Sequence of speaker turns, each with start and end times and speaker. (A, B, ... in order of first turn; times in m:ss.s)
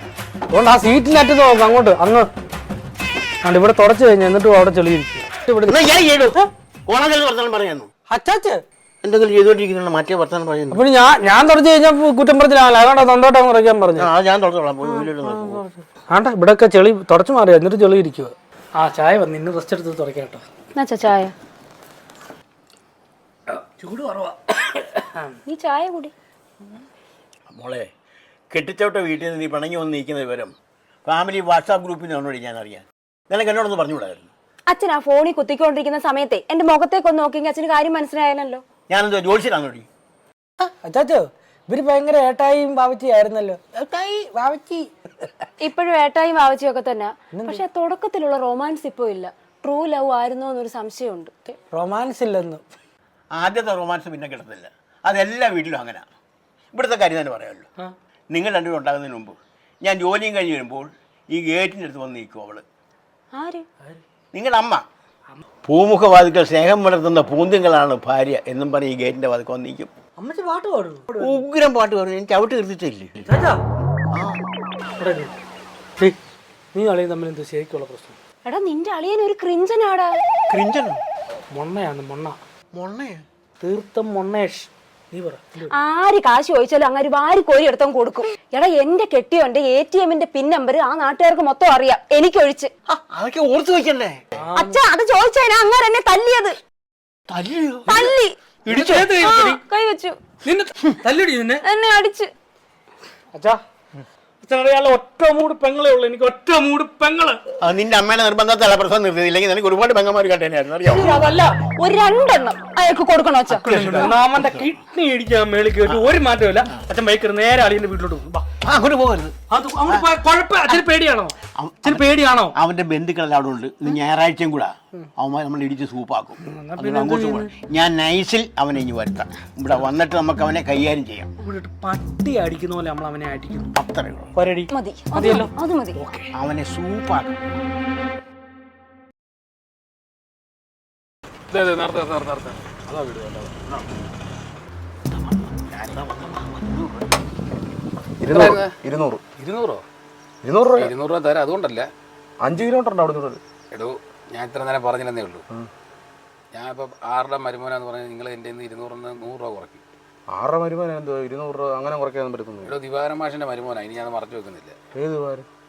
0:00.5-0:02.3 A
0:03.4-0:05.8 A
0:05.7-0:07.9 B
0:08.1-0:08.6 A
0:09.0-0:10.8 B
0:10.7-0:14.1 A
0:14.0-0:15.6 B
0:14.8-0:20.4 A
0:20.8-0:21.3 C
0:23.5-0:25.4 A
0:25.5-0:26.1 C
0:27.5-0:27.9 B
0:28.5-0:30.5 B
0:31.1-0:34.3 B
0:34.7-0:38.6 C
0:38.9-0:39.9 B
0:40.6-0:45.3 A
0:45.6-0:51.3 C
0:47.3-0:47.6 A
0:51.5-0:52.6 A
0:53.4-0:56.1 B
0:56.7-0:57.7 B
0:58.3-1:02.6 B
1:03.3-1:03.7 C
1:04.3-1:04.8 B
1:05.7-1:09.9 B
1:10.2-1:11.4 A
1:11.2-1:13.3 B
1:13.2-1:13.6 A
1:14.1-1:14.4 B
1:15.0-1:15.3 A
1:16.7-1:18.2 A
1:18.4-1:20.2 C
1:20.5-1:21.0 B
1:21.5-1:22.4 A
1:22.7-1:23.2 B
1:23.6-1:25.8 A
1:25.7-1:32.7 C
1:32.9-1:34.5 B
1:34.4-1:34.8 A
1:34.6-1:36.5 C
1:37.3-1:39.2 B
1:37.9-1:38.4 C
1:38.7-1:39.6 A
1:39.2-1:40.2 C
1:40.4-1:41.6 A
1:41.6-1:42.3 C
1:43.3-1:43.6 A
1:44.4-1:47.4 A
1:47.6-1:51.3 B
1:51.0-1:51.6 A
1:51.8-1:53.6 C
1:53.5-1:58.5 A
1:53.5-1:54.7 B
1:58.6-1:59.3 B
1:59.5-2:02.6 A
2:01.6-2:11.3 B
2:06.4-2:07.5 A
2:11.4-2:13.7 A
2:13.8-2:14.3 B
2:14.4-2:16.3 A
2:14.7-2:16.0 C
2:16.4-2:17.3 B
2:21.5-2:23.9 D
2:25.2-2:27.0 B
2:25.7-2:26.1 D
2:28.2-2:29.2 E
2:28.3-2:28.7 D
2:29.4-2:29.8 D
2:30.4-2:30.9 E
2:30.8-2:31.9 D
2:32.4-2:33.4 E
2:33.7-2:35.4 D
2:36.5-2:39.8 D
2:40.3-2:42.7 E
2:42.6-2:44.8 D
2:45.0-2:45.5 E